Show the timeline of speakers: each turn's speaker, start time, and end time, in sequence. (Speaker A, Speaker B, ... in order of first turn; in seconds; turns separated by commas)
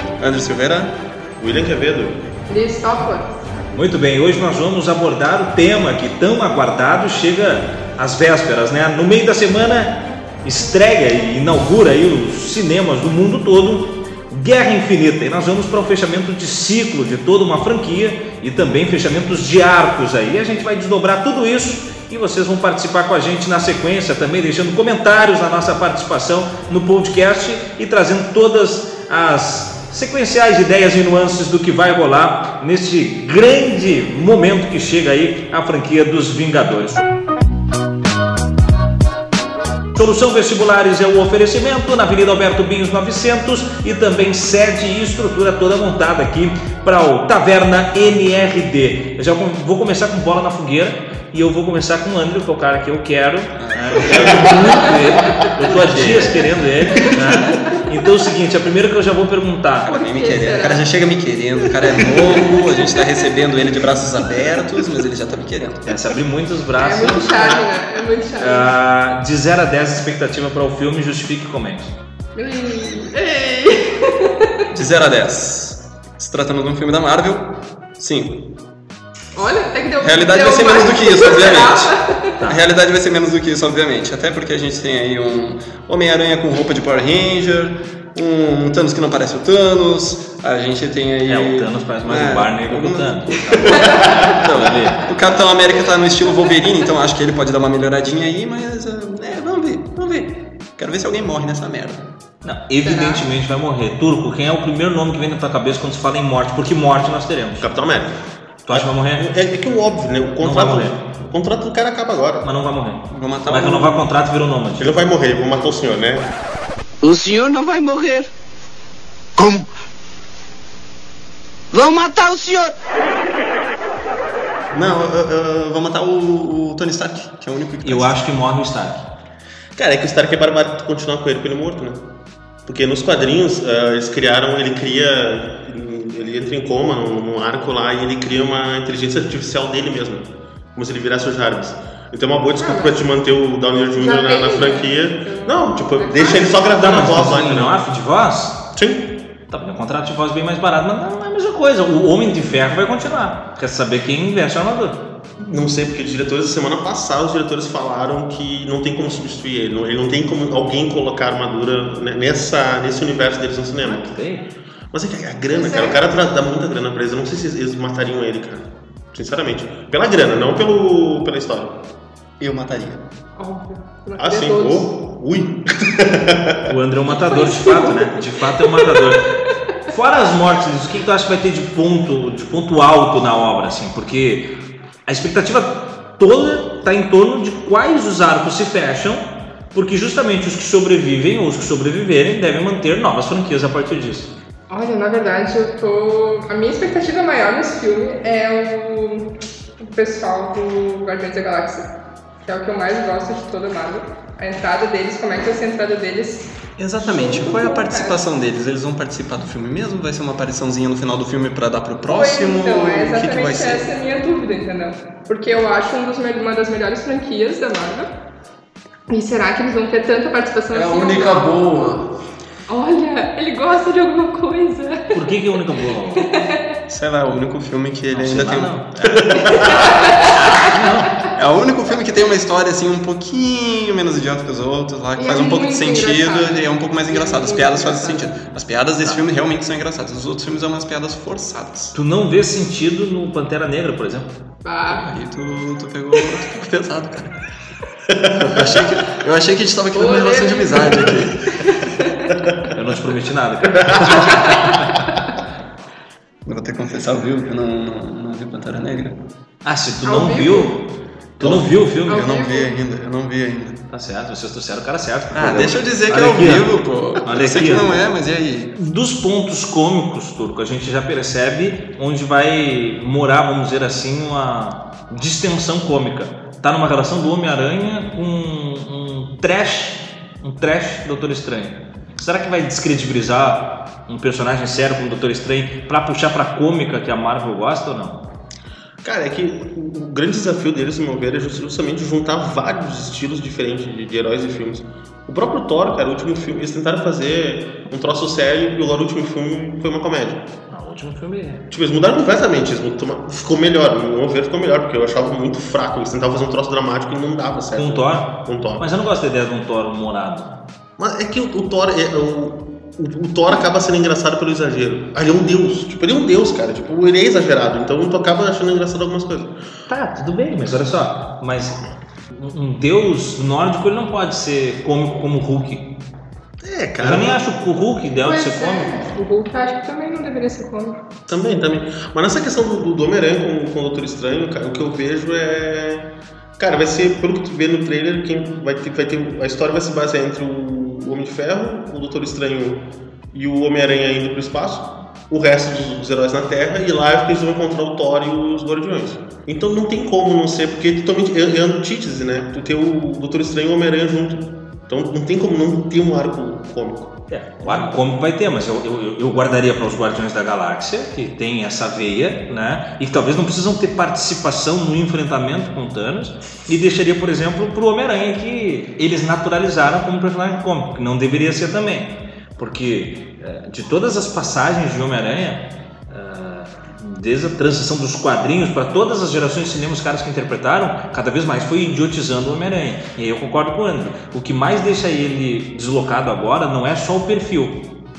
Speaker A: 0.2-0.9, Speaker B: 1.4-2.2, Speaker C: 2.5-3.3, Speaker D: 3.7-37.0, Speaker D: 39.9-59.9, Speaker A: 53.5-56.5, Speaker A: 59.8-65.9, Speaker C: 59.9-60.8, Speaker C: 61.8-63.3, Speaker D: 65.9-67.7, Speaker C: 66.8-68.7, Speaker D: 68.4-71.9, Speaker C: 72.3-74.7, Speaker A: 74.7-78.5, Speaker C: 79.3-82.3, Speaker A: 80.0-102.1, Speaker D: 91.3-95.0, Speaker D: 102.4-107.7, Speaker C: 102.8-103.2, Speaker B: 107.6-112.5, Speaker D: 108.7-109.2, Speaker D: 110.4-111.0, Speaker D: 112.4-114.9, Speaker A: 113.1-114.1, Speaker B: 114.8-116.3, Speaker E: 117.0-118.3, Speaker E: 119.4-119.7, Speaker E: 121.7-122.7, Speaker A: 124.7-128.2, Speaker D: 127.8-129.0, Speaker B: 129.8-132.0, Speaker B: 132.7-147.8, Speaker C: 142.6-143.0, Speaker C: 144.0-146.6, Speaker D: 146.8-148.6, Speaker B: 148.7-149.1, Speaker D: 149.5-155.0, Speaker B: 155.4-164.1, Speaker D: 163.8-164.5, Speaker B: 164.9-171.8, Speaker C: 165.5-166.0, Speaker A: 172.4-173.0, Speaker C: 173.4-174.9, Speaker B: 174.2-176.7, Speaker D: 176.7-179.3, Speaker C: 177.1-179.2, Speaker D: 179.8-184.5, Speaker D: 185.1-194.3, Speaker C: 194.7-201.9, Speaker C: 202.4-208.2, Speaker A: 206.8-213.9, Speaker C: 212.1-218.1, Speaker C: 219.1-221.7, Speaker A: 220.7-222.0, Speaker C: 222.7-225.3, Speaker D: 225.1-226.5, Speaker C: 226.2-226.7, Speaker A: 226.9-229.5, Speaker D: 228.1-228.8, Speaker B: 229.1-229.7, Speaker C: 229.4-230.3, Speaker D: 230.2-231.2, Speaker A: 231.3-241.9, Speaker C: 235.2-238.3, Speaker D: 241.9-244.3, Speaker C: 244.6-245.1, Speaker A: 244.9-247.4, Speaker B: 248.1-248.6, Speaker A: 248.3-251.5, Speaker C: 249.9-252.3, Speaker D: 252.7-254.6, Speaker C: 254.2-254.6, Speaker A: 256.4-259.2, Speaker D: 259.6-260.8, Speaker C: 260.0-260.7, Speaker D: 261.4-262.3, Speaker A: 261.4-263.8, Speaker C: 262.1-262.7, Speaker D: 263.9-268.0, Speaker A: 265.3-268.7, Speaker D: 268.8-288.2, Speaker B: 289.0-300.4, Speaker D: 300.7-301.7, Speaker B: 301.7-308.9, Speaker D: 307.7-310.6, Speaker B: 311.0-319.6, Speaker D: 319.9-321.8, Speaker D: 322.3-325.9, Speaker B: 326.6-327.4, Speaker D: 327.0-328.9, Speaker C: 328.2-331.0, Speaker B: 331.3-336.1, Speaker B: 336.6-357.2, Speaker D: 357.3-387.8